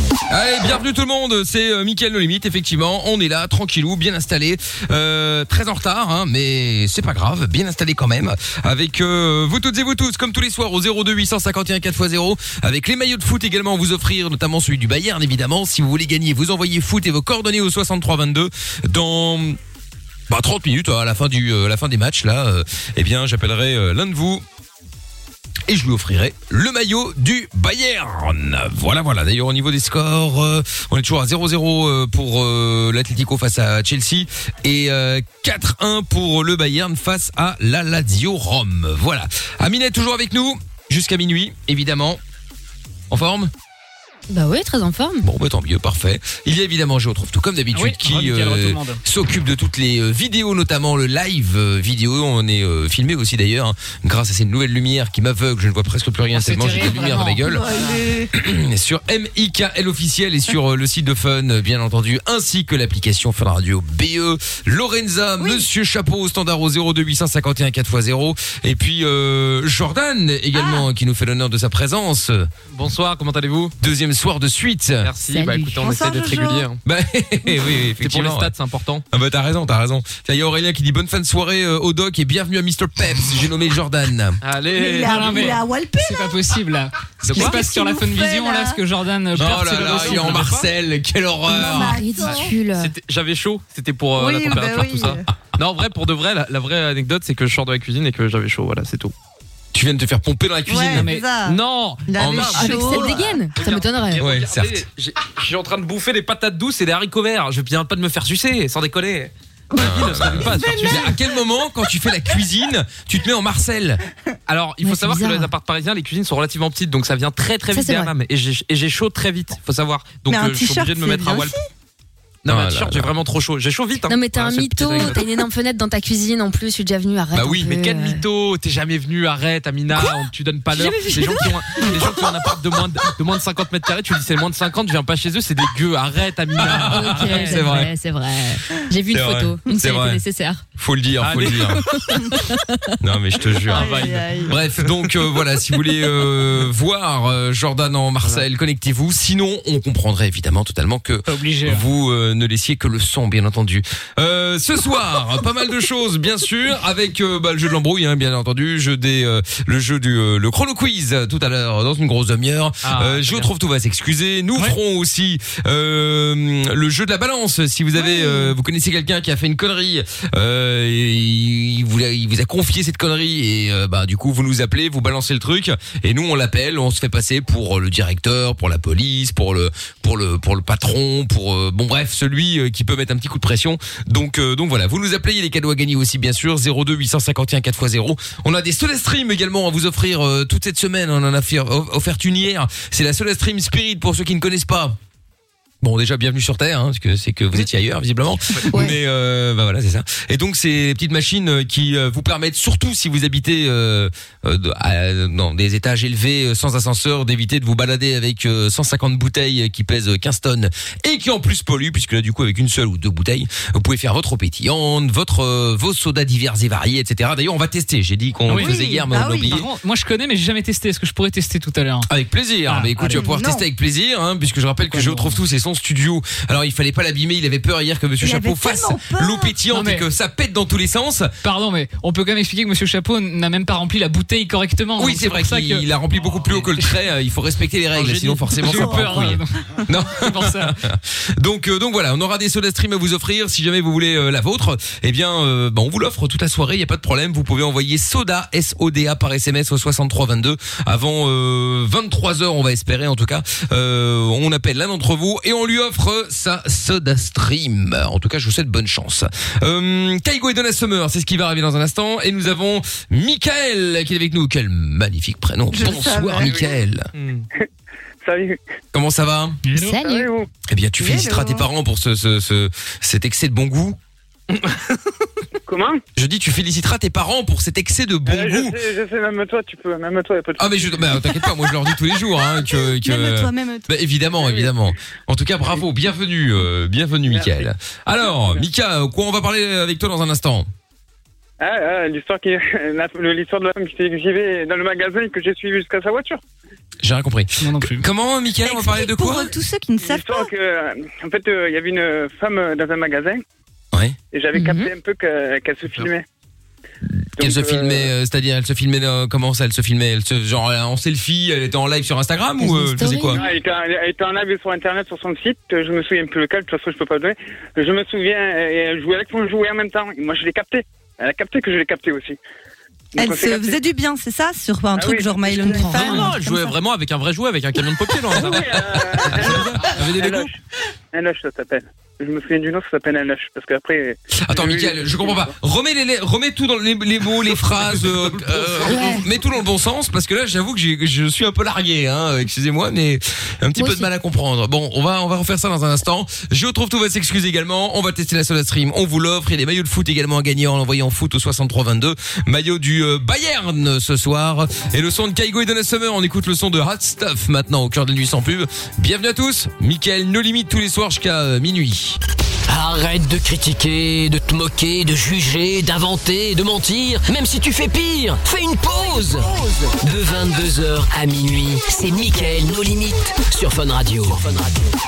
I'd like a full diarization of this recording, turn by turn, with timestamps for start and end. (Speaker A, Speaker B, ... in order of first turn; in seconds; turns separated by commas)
Speaker A: 0.3-19.6, Speaker A: 20.3-24.4, Speaker A: 25.7-42.2, Speaker A: 43.1-43.5, Speaker B: 44.3-45.3, Speaker A: 45.2-57.7, Speaker C: 47.7-49.0, Speaker C: 56.3-57.9, Speaker D: 56.8-58.3, Speaker A: 58.3-72.5, Speaker D: 65.4-65.7, Speaker D: 70.5-70.8, Speaker E: 72.7-73.7, Speaker A: 73.8-75.1, Speaker E: 75.0-76.8, Speaker B: 75.3-75.8, Speaker D: 75.8-76.7, Speaker A: 76.8-78.5, Speaker E: 78.0-79.0, Speaker A: 79.1-84.4, Speaker E: 84.4-85.6, Speaker D: 84.7-86.4, Speaker C: 85.0-90.5, Speaker A: 87.2-87.5, Speaker D: 87.3-88.8, Speaker A: 89.3-92.0, Speaker E: 89.4-90.7, Speaker D: 91.5-92.6, Speaker B: 91.7-92.9, Speaker E: 92.2-99.1, Speaker D: 94.2-95.2, Speaker A: 99.7-101.1, Speaker D: 100.7-103.2, Speaker C: 100.9-101.2, Speaker E: 101.4-111.2, Speaker A: 102.2-103.1, Speaker B: 102.5-104.2, Speaker A: 104.2-104.8, Speaker D: 109.7-111.2, Speaker A: 109.8-114.0, Speaker E: 114.5-121.5, Speaker B: 114.8-115.5, Speaker B: 117.7-118.1, Speaker D: 120.3-121.7, Speaker E: 122.4-125.4, Speaker A: 122.5-123.1, Speaker B: 124.0-128.2, Speaker A: 127.3-127.8, Speaker E: 127.6-137.9, Speaker D: 130.8-132.3, Speaker A: 136.6-137.9, Speaker B: 136.7-140.6, Speaker A: 139.1-140.2, Speaker A: 140.8-141.8, Speaker E: 141.2-142.2, Speaker B: 141.9-142.8, Speaker A: 143.0-195.0, Speaker E: 143.7-145.1, Speaker D: 143.7-144.5, Speaker C: 151.3-151.9, Speaker E: 162.8-163.5, Speaker D: 168.0-168.5, Speaker A: 195.8-219.7, Speaker C: 218.5-222.1, Speaker D: 218.5-219.6, Speaker A: 222.1-231.3, Speaker C: 222.7-223.2, Speaker D: 223.1-223.6, Speaker C: 224.9-225.4, Speaker D: 228.2-229.6, Speaker C: 229.7-230.0, Speaker C: 231.4-235.8, Speaker A: 235.0-267.1, Speaker E: 237.9-239.3, Speaker C: 238.6-240.8, Speaker D: 238.8-239.1, Speaker D: 265.7-266.5, Speaker F: 266.4-266.8, Speaker E: 267.1-267.4, Speaker F: 268.2-268.6, Speaker A: 268.9-269.6, Speaker C: 269.6-270.0, Speaker B: 269.8-270.3, Speaker F: 269.9-270.5, Speaker A: 270.7-274.0, Speaker D: 271.0-271.6, Speaker F: 275.7-276.0, Speaker A: 276.1-278.8, Speaker F: 278.2-281.4, Speaker A: 280.6-290.7, Speaker D: 282.8-283.9, Speaker F: 284.4-284.8, Speaker F: 287.3-287.7, Speaker F: 288.2-288.6, Speaker F: 291.6-296.4, Speaker A: 297.0-299.5, Speaker C: 297.6-298.1, Speaker D: 298.6-300.5, Speaker F: 300.0-303.4, Speaker F: 304.3-306.2, Speaker B: 304.5-304.9, Speaker A: 307.1-313.4, Speaker F: 307.4-308.1, Speaker B: 312.6-313.4, Speaker F: 313.3-322.4, Speaker F: 323.1-323.8, Speaker D: 323.2-326.8, Speaker F: 324.9-326.2, Speaker E: 325.7-330.5, Speaker F: 328.4-330.6, Speaker F: 331.1-335.5, Speaker A: 334.4-362.2, Speaker E: 337.9-339.1, Speaker B: 338.9-339.2, Speaker B: 343.8-344.1, Speaker G: 362.7-374.9